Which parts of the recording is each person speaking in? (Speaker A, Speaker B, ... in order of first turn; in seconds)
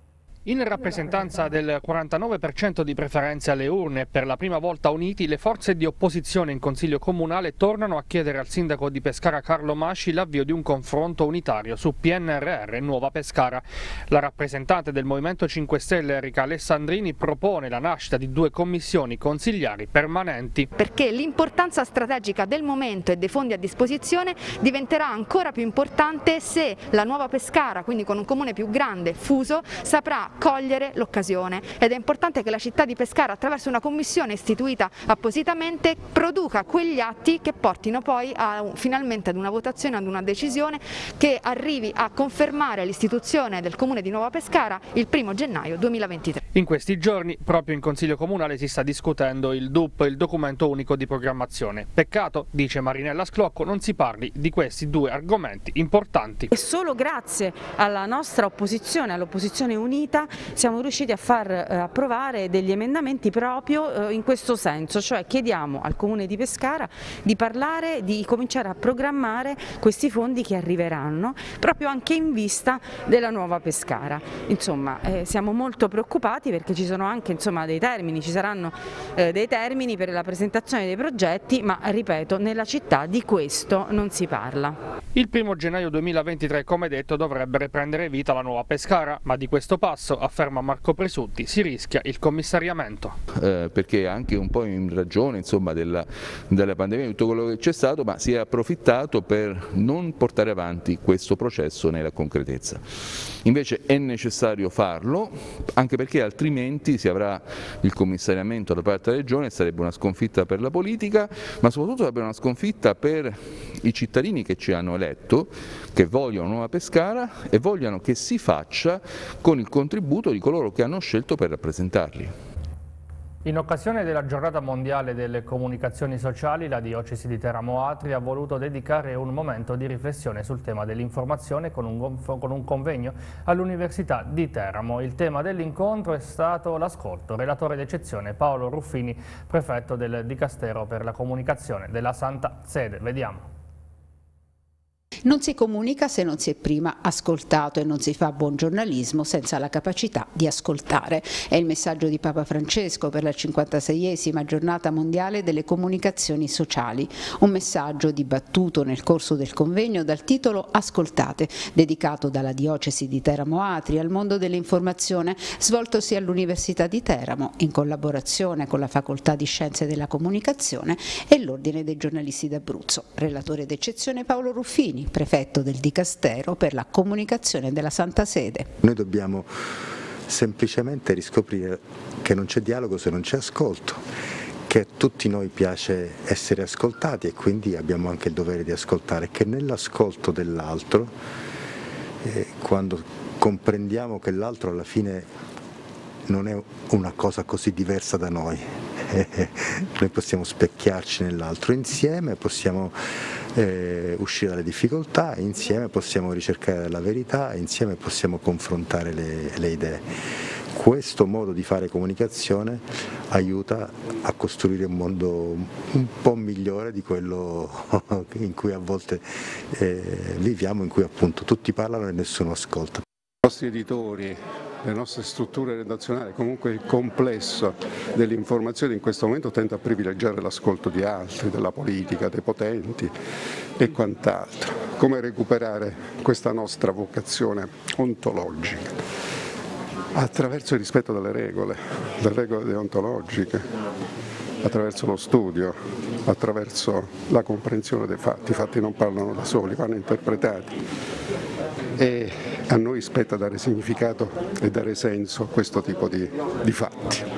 Speaker A: 0.5-20.7, 46.5-56.5, 85.1-93.2, 123.4-143.5
Speaker B: 20.8-46.4
Speaker C: 56.5-84.8
Speaker D: 93.3-122.4
Speaker E: 145.2-178.7
Speaker F: 178.8-179.5, 180.2-184.0, 184.7-191.2, 192.2-195.3, 196.3-203.0, 203.5-210.1, 210.7-223.0
Speaker G: 223.4-233.1, 233.8-238.9, 240.1-243.7, 244.6-250.8, 252.0-257.2